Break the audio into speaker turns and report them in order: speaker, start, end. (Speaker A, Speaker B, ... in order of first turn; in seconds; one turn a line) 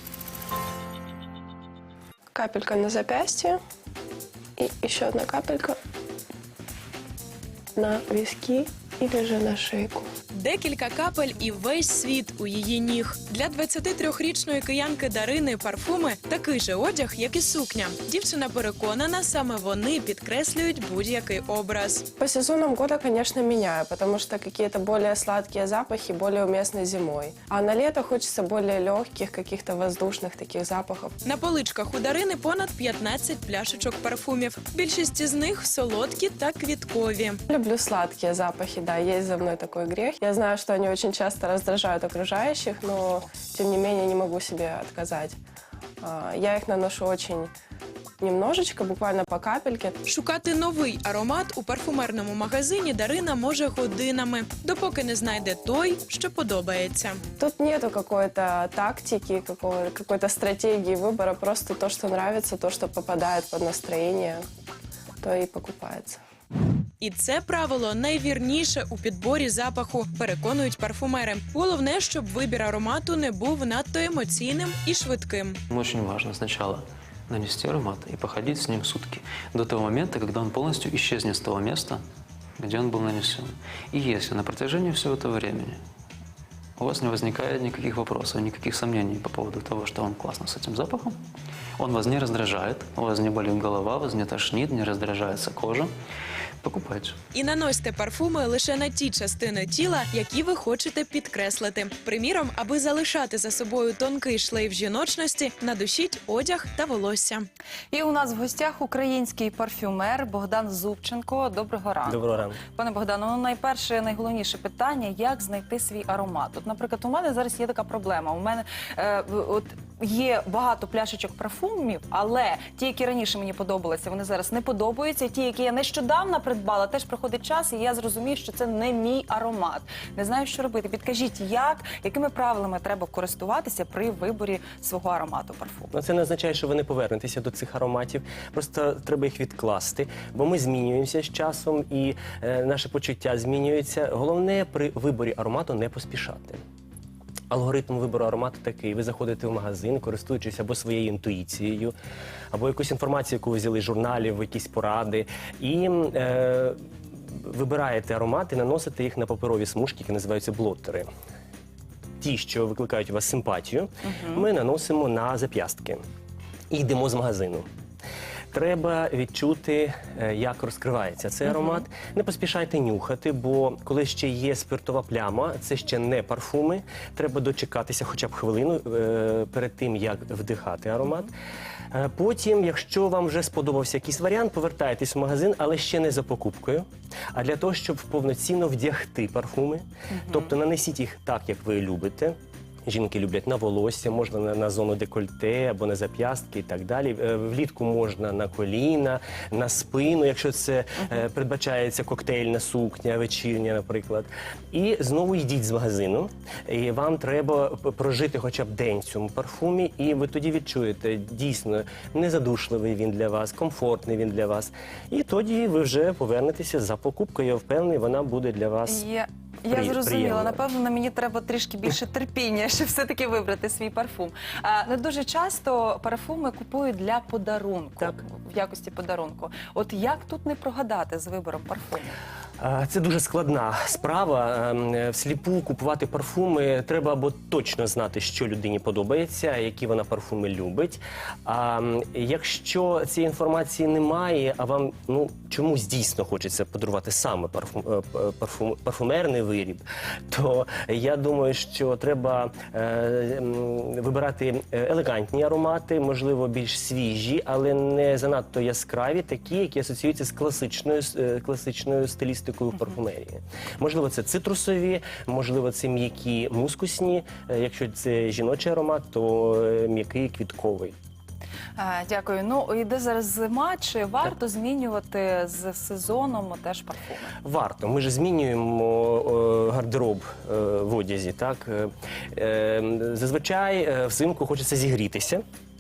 Speaker A: 2.4-3.6
Speaker A: 4.6-5.8
Speaker A: 7.8-10.1
Speaker B: 10.3-22.0
Speaker A: 22.2-31.1
Speaker B: 31.2-37.4
Speaker A: 37.5-45.4
Speaker A: 46.0-47.5
Speaker A: 48.2-50.0
Speaker B: 50.1-57.2
Speaker A: 57.4-64.4
Speaker A: 65.2-66.2
Speaker B: 67.0-75.6
Speaker C: 75.7-82.0
Speaker C: 82.6-85.8
Speaker C: 86.8-91.2
Speaker C: 91.8-95.9
Speaker C: 96.6-97.2
Speaker B: 97.3-107.5
Speaker D: 107.9-135.9
Speaker E: 112.1-112.6
Speaker E: 135.9-146.6
Speaker E: 147.5-151.9
Speaker E: 152.5-161.1
Speaker E: 162.2-166.0
Speaker E: 166.7-167.7
Speaker E: 168.5-181.3
Speaker E: 181.9-219.1
Speaker D: 218.9-232.2
Speaker E: 219.7-220.6
Speaker E: 232.6-270.9
Speaker D: 271.8-277.3
Speaker E: 277.4-285.4